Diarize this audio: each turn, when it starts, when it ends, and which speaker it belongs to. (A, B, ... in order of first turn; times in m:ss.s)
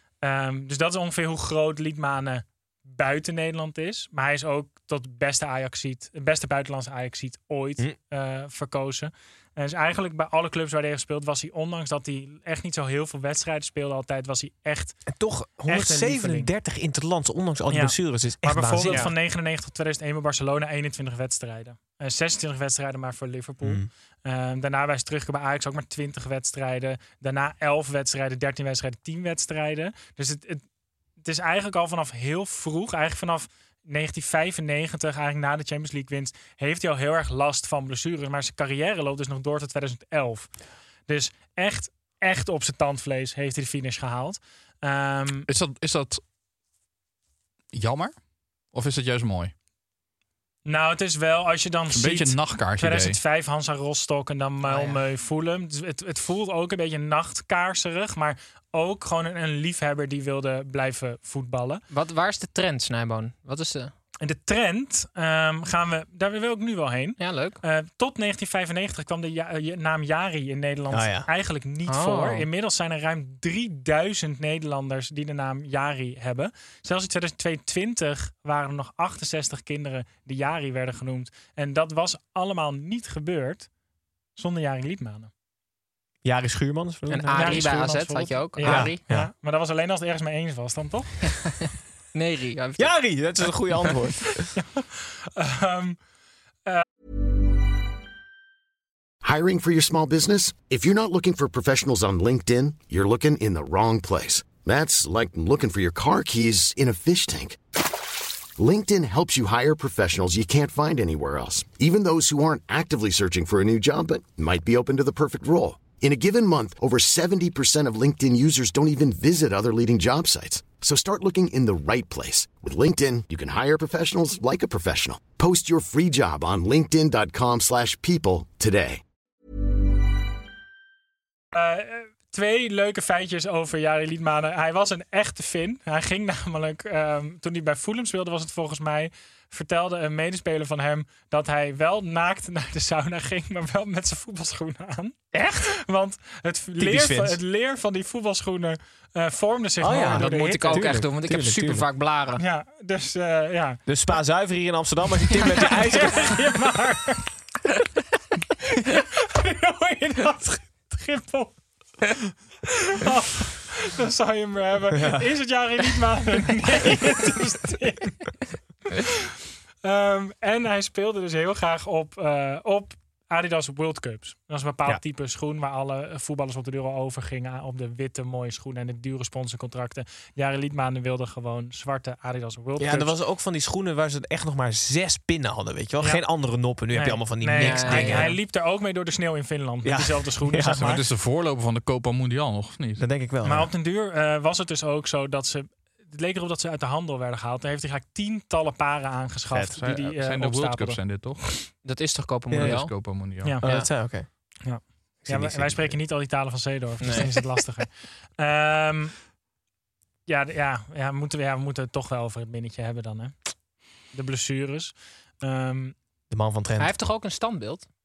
0:00.2-0:15.0 A
0:15.1-0:19.1 B
0:15.6-0:16.5 A
0:17.7-0:30.6 A
0:23.6-0:23.9 B
0:31.2-0:40.5 A
0:41.1-0:45.5 A
0:45.5-0:46.2 C
0:47.7-0:48.1 C
0:48.7-0:49.5 C
0:50.6-1:01.8 A
0:51.9-0:53.2 C
0:54.6-0:55.0 D
1:01.9-1:03.9 D
1:04.2-1:23.7 A
1:07.2-1:07.6 D
1:10.9-1:11.3 B
1:11.9-1:12.5 D
1:24.4-1:25.3 A
1:26.2-1:27.8 B
1:27.1-1:29.0 D
1:27.3-1:31.2 A
1:28.6-1:29.3 B
1:32.1-1:32.9 D
1:32.8-1:34.5 B
1:34.5-1:36.0 A
1:39.2-1:47.6 E
1:48.6-2:09.0 E
2:11.5-2:30.9 A
2:26.8-2:27.4 B
2:29.8-2:31.9 B
2:30.1-2:32.4 D
2:32.4-2:33.8 A
2:33.9-2:36.3 B
2:35.4-2:37.3 A
2:38.6-2:41.6 A
2:42.6-2:48.3 A
2:44.9-2:45.2 B
2:49.0-2:49.3 A
2:49.8-3:03.2 A
3:02.8-3:08.3 B
3:06.0-3:06.3 A
3:06.9-3:11.0 A
3:07.5-3:08.3 D
3:09.8-3:10.9 B
3:10.8-3:13.0 C
3:13.0-3:13.7 B
3:13.4-3:21.0 A
3:19.5-3:19.8 B
3:19.8-3:21.5 C
3:21.8-3:22.9 D
3:22.5-3:22.8 B
3:22.6-3:23.6 C
3:23.6-3:24.3 B
3:24.6-3:29.1 A
3:25.2-3:26.0 B
3:27.0-3:27.3 D
3:30.2-3:33.3 A
3:34.1-3:35.9 A
3:36.3-3:36.9 B
3:36.8-3:37.9 D